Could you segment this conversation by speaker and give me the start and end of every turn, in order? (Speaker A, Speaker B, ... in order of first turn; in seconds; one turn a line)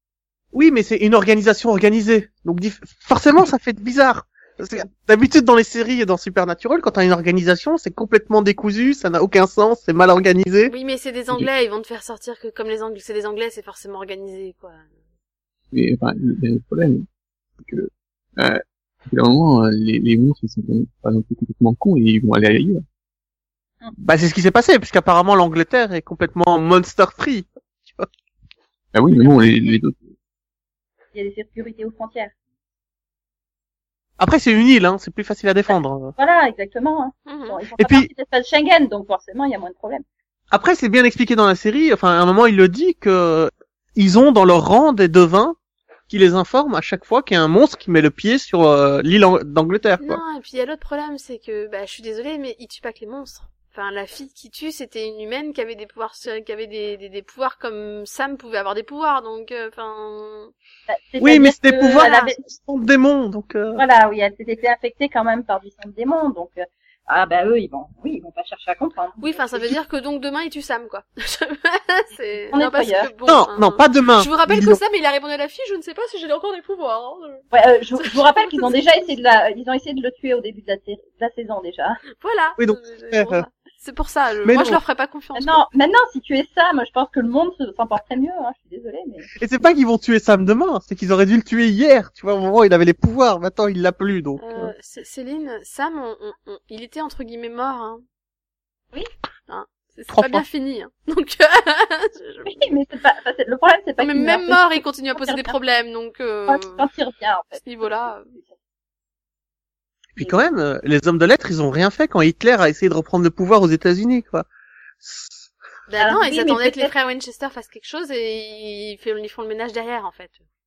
Speaker A: 0.5-10.7
Speaker B: 10.7-14.9
Speaker C: 15.7-17.1
Speaker C: 17.6-22.8
Speaker A: 24.0-28.1
Speaker C: 28.9-30.0
Speaker D: 29.1-29.8
Speaker D: 31.1-32.3
Speaker A: 34.2-36.1
Speaker D: 35.7-40.0
Speaker B: 37.2-37.6
Speaker A: 37.8-38.1
Speaker A: 40.5-45.5
Speaker A: 46.1-50.2
Speaker B: 50.0-60.5
Speaker D: 60.9-62.4
Speaker A: 61.2-63.8
Speaker D: 63.7-69.8
Speaker B: 69.2-77.4
Speaker D: 72.5-73.1
Speaker A: 73.3-74.8
Speaker D: 77.5-82.0
Speaker B: 78.0-78.7
Speaker B: 82.2-85.6
Speaker A: 82.6-83.4
Speaker A: 84.4-84.8
Speaker D: 85.3-89.3
Speaker A: 89.4-94.7
Speaker B: 94.4-98.0
Speaker B: 99.5-102.7
Speaker A: 100.1-100.4
Speaker D: 102.5-105.5
Speaker B: 104.0-106.8
Speaker D: 106.5-108.5
Speaker B: 107.6-108.3
Speaker A: 110.2-114.5
Speaker D: 110.2-110.4
Speaker A: 115.0-115.5
Speaker B: 115.9-120.4
Speaker D: 116.0-116.9